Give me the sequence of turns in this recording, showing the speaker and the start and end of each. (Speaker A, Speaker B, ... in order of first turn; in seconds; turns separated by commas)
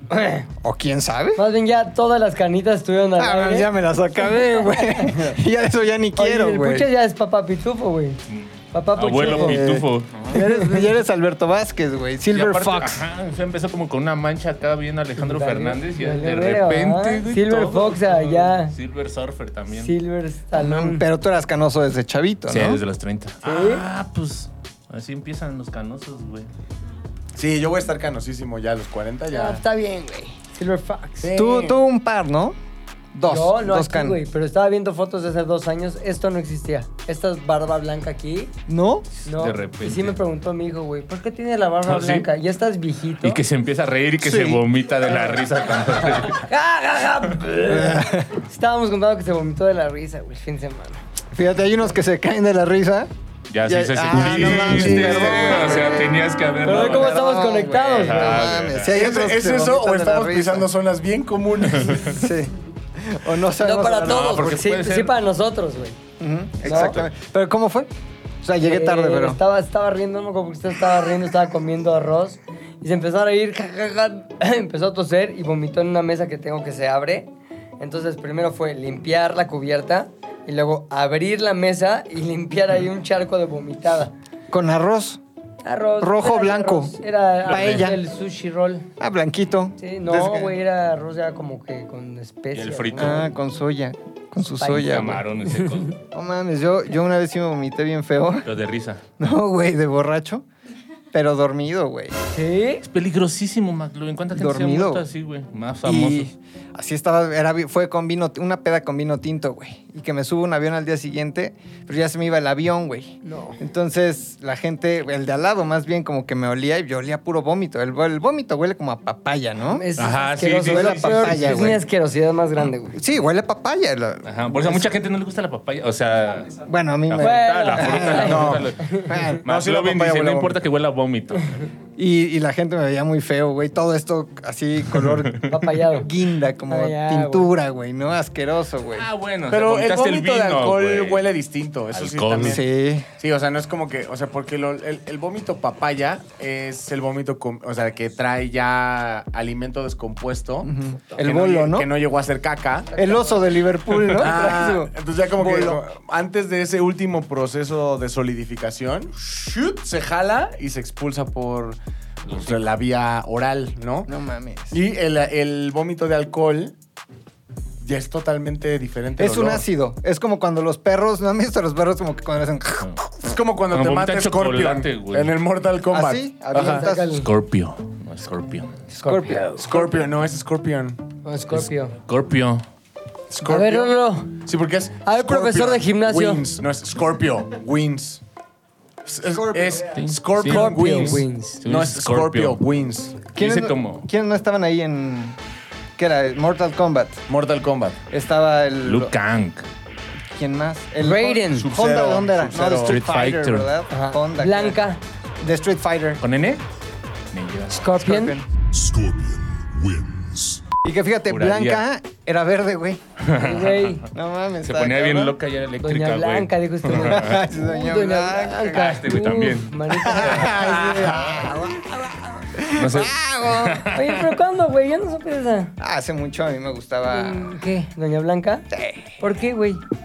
Speaker A: 0.1-0.5, Speaker B: 0.6-1.4, Speaker A: 1.4-3.7, Speaker B: 3.2-6.9, Speaker A: 4.4-5.2, Speaker A: 6.2-8.2, Speaker C: 8.3-10.4, Speaker A: 8.7-9.6, Speaker B: 9.2-13.0, Speaker A: 10.3-10.9, Speaker C: 12.3-19.9, Speaker A: 15.2-18.7, Speaker A: 19.8-21.1, Speaker B: 20.5-22.8, Speaker C: 22.5-26.5, Speaker A: 23.4-23.9, Speaker D: 27.4-29.6, Speaker A: 29.3-31.3, Speaker D: 31.2-31.8, Speaker B: 31.3-32.6, Speaker B: 33.1-34.2, Speaker A: 33.3-38.5, Speaker B: 38.7-39.1, Speaker A: 39.2-43.4, Speaker C: 39.4-40.2, Speaker C: 41.9-42.3, Speaker C: 43.2-46.4, Speaker B: 44.2-44.6, Speaker A: 45.1-45.4, Speaker A: 46.1-51.0, Speaker B: 47.6-48.4, Speaker B: 51.3-53.1, Speaker C: 53.5-57.2, Speaker B: 53.6-60.7, Speaker D: 54.1-56.0, Speaker A: 56.6-58.5, Speaker C: 58.0-59.0, Speaker D: 58.9-62.3, Speaker B: 62.0-64.6, Speaker A: 63.6-66.0, Speaker C: 64.0-65.1, Speaker B: 66.2-67.9, Speaker A: 66.6-67.0, Speaker B: 68.4-69.4, Speaker A: 68.6-84.1, Speaker B: 84.5-85.2, Speaker A: 85.6-88.9, Speaker B: 86.0-86.9, Speaker B: 87.5-88.0, Speaker C: 87.5-87.9, Speaker B: 89.0-90.6, Speaker A: 89.8-93.3, Speaker C: 92.5-93.3, Speaker B: 93.0-95.2, Speaker A: 94.6-95.1, Speaker C: 94.7-96.0, Speaker A: 95.6-95.9, Speaker B: 96.1-98.5, Speaker C: 98.5-99.0, Speaker B: 99.2-100.5, Speaker B: 101.1-102.2, Speaker A: 102.3-102.8, Speaker C: 102.8-106.3, Speaker B: 104.3-105.1, Speaker B: 105.8-119.9, Speaker A: 113.2-113.6, Speaker A: 119.7-123.0, Speaker C: 120.0-121.8, Speaker B: 120.6-121.8, Speaker B: 123.0-124.9, Speaker C: 124.2-131.6, Speaker B: 126.7-129.5, Speaker A: 127.2-129.1, Speaker D: 128.2-128.7, Speaker D: 129.5-130.6, Speaker B: 132.0-139.1, Speaker C: 135.0-135.5, Speaker A: 135.5-136.1, Speaker A: 136.7-137.5, Speaker C: 138.9-141.3, Speaker D: 139.5-142.6, Speaker C: 141.9-142.6, Speaker B: 142.4-143.1, Speaker D: 143.2-152.9, Speaker B: 150.6-151.9, Speaker A: 152.9-153.5, Speaker B: 153.0-155.8, Speaker D: 154.2-164.1, Speaker C: 162.3-162.6, Speaker B: 164.1-164.8, Speaker D: 164.7-166.8, Speaker D: 167.8-169.6, Speaker B: 169.2-173.0, Speaker D: 173.2-176.9, Speaker C: 173.7-175.3, Speaker B: 175.9-177.2, Speaker A: 176.5-177.3, Speaker C: 177.2-178.8, Speaker B: 178.9-179.8, Speaker A: 179.0-179.7, Speaker D: 179.6-181.0, Speaker A: 181.2-181.9, Speaker C: 181.5-182.6, Speaker D: 183.3-188.2, Speaker A: 183.4-184.3, Speaker A: 185.1-186.4, Speaker D: 189.1-193.2, Speaker B: 189.2-189.9, Speaker C: 189.9-192.6, Speaker A: 190.5-191.6, Speaker C: 193.3-194.1, Speaker B: 193.3-195.4, Speaker B: 196.0-197.2, Speaker D: 197.3-198.0, Speaker B: 198.1-199.1, Speaker C: 198.8-199.7, Speaker B: 200.3-204.8, Speaker A: 201.0-201.7, Speaker D: 201.5-203.0, Speaker C: 202.8-203.7, Speaker A: 203.9-205.0, Speaker B: 205.4-206.2, Speaker C: 206.2-206.6, Speaker C: 207.3-207.8, Speaker A: 207.7-208.4, Speaker B: 208.0-208.5, Speaker B: 210.8-213.0, Speaker C: 211.3-211.8, Speaker C: 213.2-214.0, Speaker A: 213.4-214.0, Speaker B: 214.1-215.4, Speaker C: 214.6-217.4, Speaker A: 215.8-220.7, Speaker B: 216.9-219.0, Speaker C: 218.7-220.5, Speaker B: 220.0-223.9, Speaker D: 220.6-221.2, Speaker C: 222.8-224.3, Speaker A: 223.9-225.7, Speaker B: 225.8-227.6, Speaker A: 227.1-228.7, Speaker B: 228.7-229.2, Speaker A: 229.2-229.8